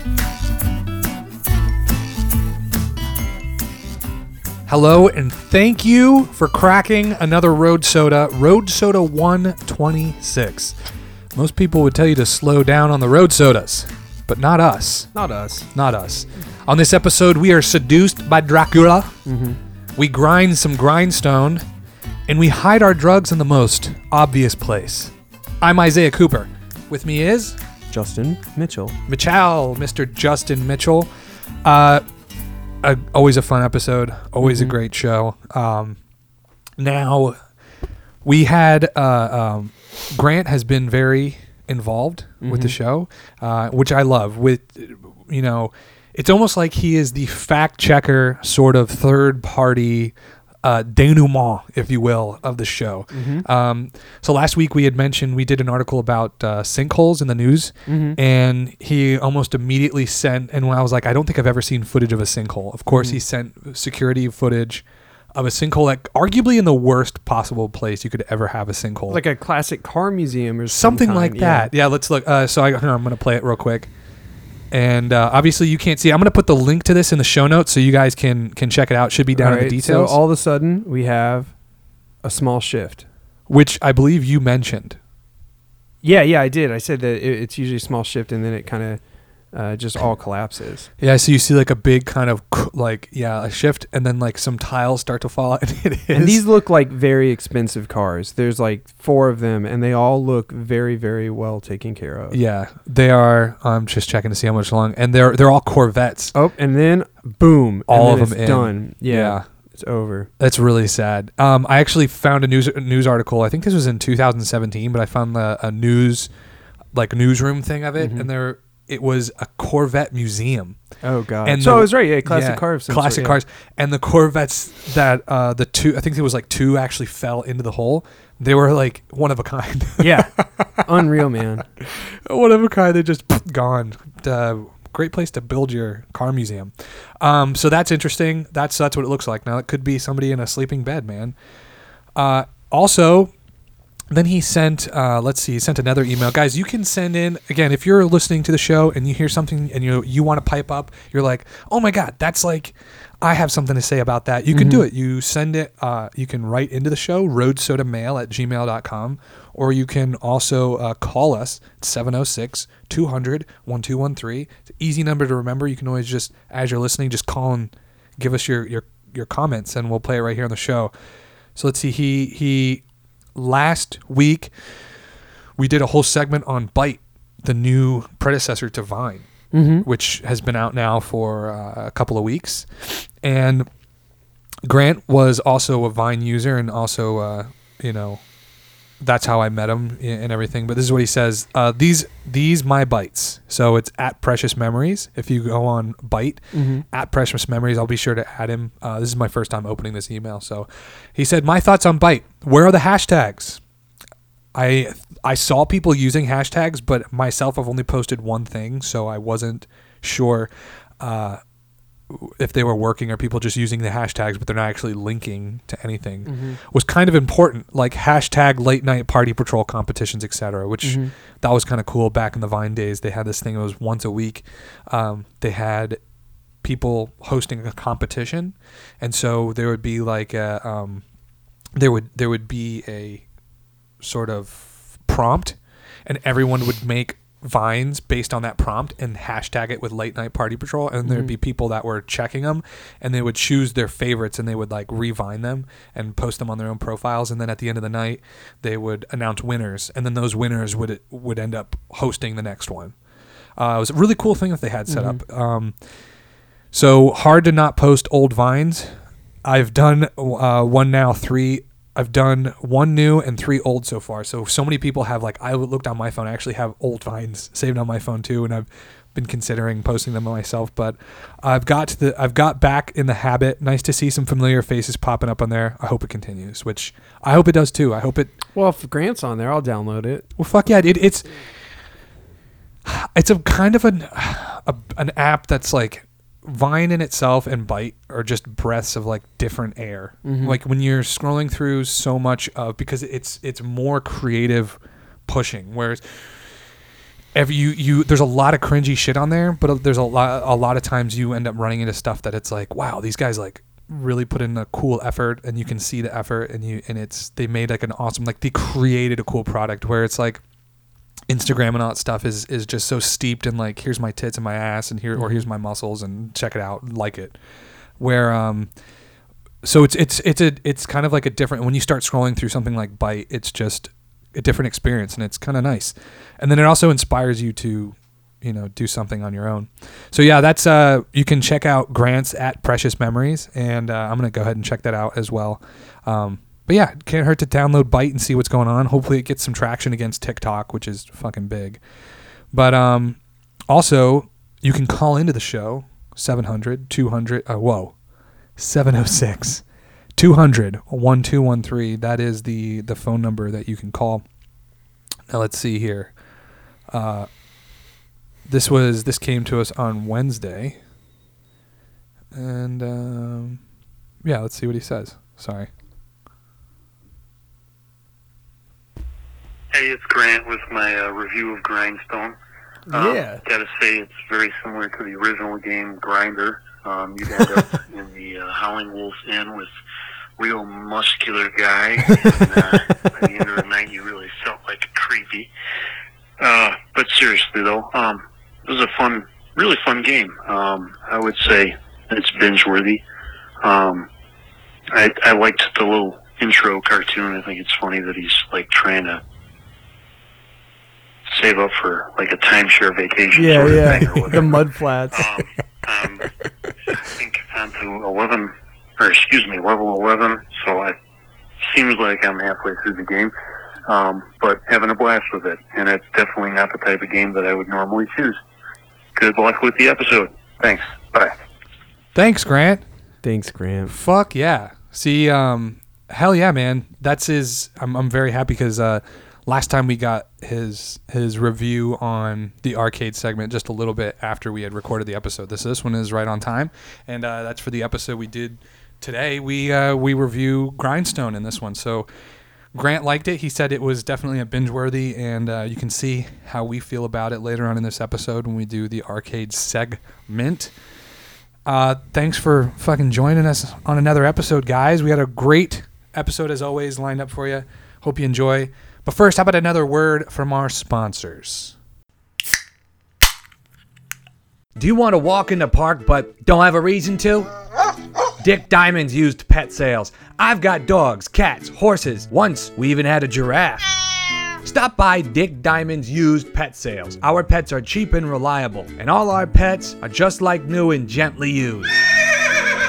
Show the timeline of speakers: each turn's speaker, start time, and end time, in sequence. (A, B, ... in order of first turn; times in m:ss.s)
0:04.7-0:10.8 A
0:11.3-0:15.1 A
0:15.1-0:15.7 B
0:15.7-0:19.1 A
0:19.2-0:19.6 B
0:20.0-0:21.6 A
0:22.3-0:27.6 A
0:27.9-0:28.9 B
0:29.1-0:31.1 A
0:31.6-0:32.0 A
0:32.8-0:36.0 A
0:34.4-0:34.8 B
0:36.8-0:37.4 A
0:38.2-1:09.2 A
0:42.4-0:42.8 B
0:53.1-0:53.4 B
0:57.9-0:58.2 B
1:02.9-1:03.2 B
1:09.1-1:11.7 B
1:10.7-1:13.9 A
1:14.7-1:20.2 A
1:19.4-1:21.5 B
1:22.2-1:23.0 B
1:23.5-1:25.0 A
1:26.0-1:29.0 B
1:29.5-1:30.9 B
1:31.0-1:36.4 A
1:36.1-1:42.4 B
1:42.3-1:46.3 A
1:46.3-1:50.3 B
1:47.9-1:49.4 A
1:50.4-1:56.3 A
1:56.9-2:00.8 A
1:58.0-1:58.3 B
2:01.0-2:03.4 B
2:01.4-2:10.6 A
2:10.0-2:11.6 B
2:11.8-2:21.4 A
2:22.2-2:23.3 A
2:24.1-2:50.9 A
2:34.5-2:34.8 B
2:51.6-2:52.8 A
2:53.3-2:54.5 A
2:55.6-2:59.3 A
2:59.5-2:59.8 B
2:59.8-3:03.7 A
3:04.6-3:08.2 A
3:09.0-3:23.6 A
3:16.5-3:16.8 B
3:24.5-3:31.4 A
3:32.1-3:46.0 A
3:36.2-3:36.6 B
3:40.8-3:41.1 B
3:46.6-3:51.0 A
3:51.7-3:53.2 A
3:54.0-4:12.9 A
4:01.0-4:01.3 B
4:13.6-4:15.8 A
4:14.9-4:15.2 B
4:16.7-4:38.4 A
4:38.5-4:40.3 B
4:40.4-4:41.3 A
4:42.8-4:56.4 A
4:50.2-4:50.6 B
4:57.3-5:10.4 A
5:11.3-5:17.4 A
5:15.2-5:15.5 B
5:18.0-5:18.7 A
5:19.6-5:41.8 A
5:42.5-5:47.9 A
5:48.6-5:49.6 A
5:50.2-5:54.2 A
5:55.3-5:56.1 A
5:56.9-5:57.3 A
5:58.4-6:00.8 A
6:02.3-6:03.6 A
6:04.2-6:05.7 A
6:09.7-6:12.4 C
6:12.9-6:13.4 B
6:12.9-6:19.7 C
6:20.4-6:25.5 C
6:22.1-6:23.1 B
6:26.4-6:33.0 C
6:33.6-6:34.1 C
6:34.9-6:39.2 C
6:41.3-6:44.6 C
6:43.3-6:45.3 B
6:45.1-6:46.3 C
6:46.9-6:50.9 C
6:51.6-6:53.3 C
6:53.9-6:58.4 C
6:59.2-7:01.3 C
7:02.1-7:02.8 A
7:03.2-7:03.9 B
7:03.9-7:22.1 A
7:22.7-7:30.7 A
7:31.6-7:41.8 A
7:44.8-7:47.5 D
7:48.4-7:53.9 D
7:54.6-8:02.0 D